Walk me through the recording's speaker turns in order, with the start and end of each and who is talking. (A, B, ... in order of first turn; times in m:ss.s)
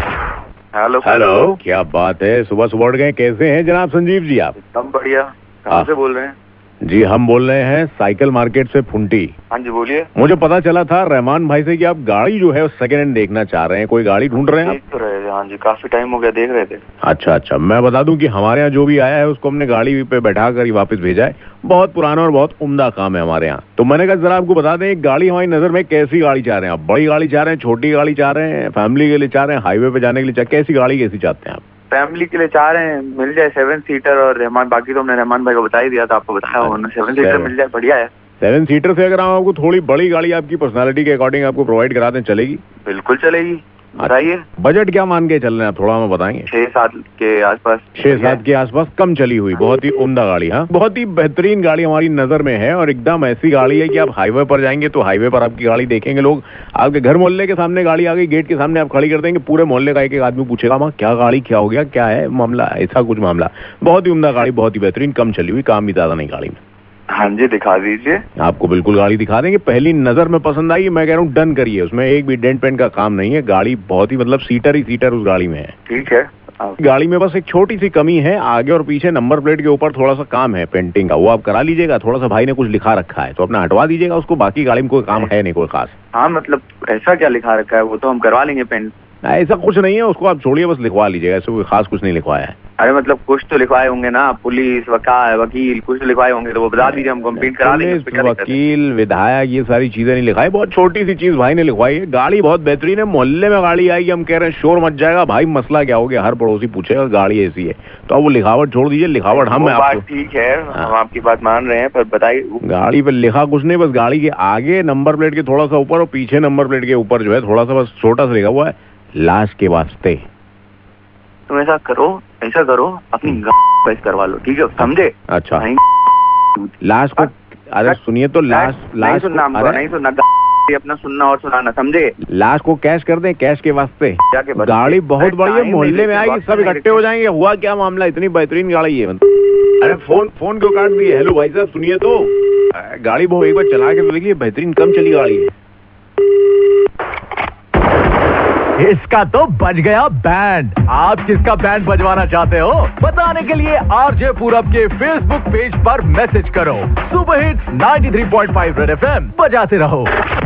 0:00.7-0:01.5 A
0:01.0-0:04.6 B
0:04.6-0:06.4 A
0:06.8-0:09.3 B
0:09.5-0:10.1 A
0:10.2-0:14.8 B
0:14.4-0:16.8 A
0:17.0-0:31.6 B
0:31.9-0:38.1 A
0:36.6-0:37.5 B
0:38.4-0:42.6 B
0:42.8-0:44.4 A
0:44.0-0:46.5 B
0:46.5-0:48.4 A
0:48.0-1:06.6 B
1:07.1-1:08.2 A
1:08.4-1:15.7 B
1:15.9-1:16.8 A
1:16.8-1:25.9 B
1:26.1-1:28.9 A
1:29.2-1:32.6 B
1:32.8-1:38.6 A
1:36.8-1:50.0 B
1:49.3-1:52.6 A
1:52.6-2:00.2 B
2:01.5-2:05.8 A
2:05.3-2:05.7 B
2:06.8-2:09.8 B
2:07.8-2:12.1 A
2:12.3-2:19.2 B
2:14.3-2:17.0 A
2:19.8-2:25.5 B
2:28.8-2:40.1 C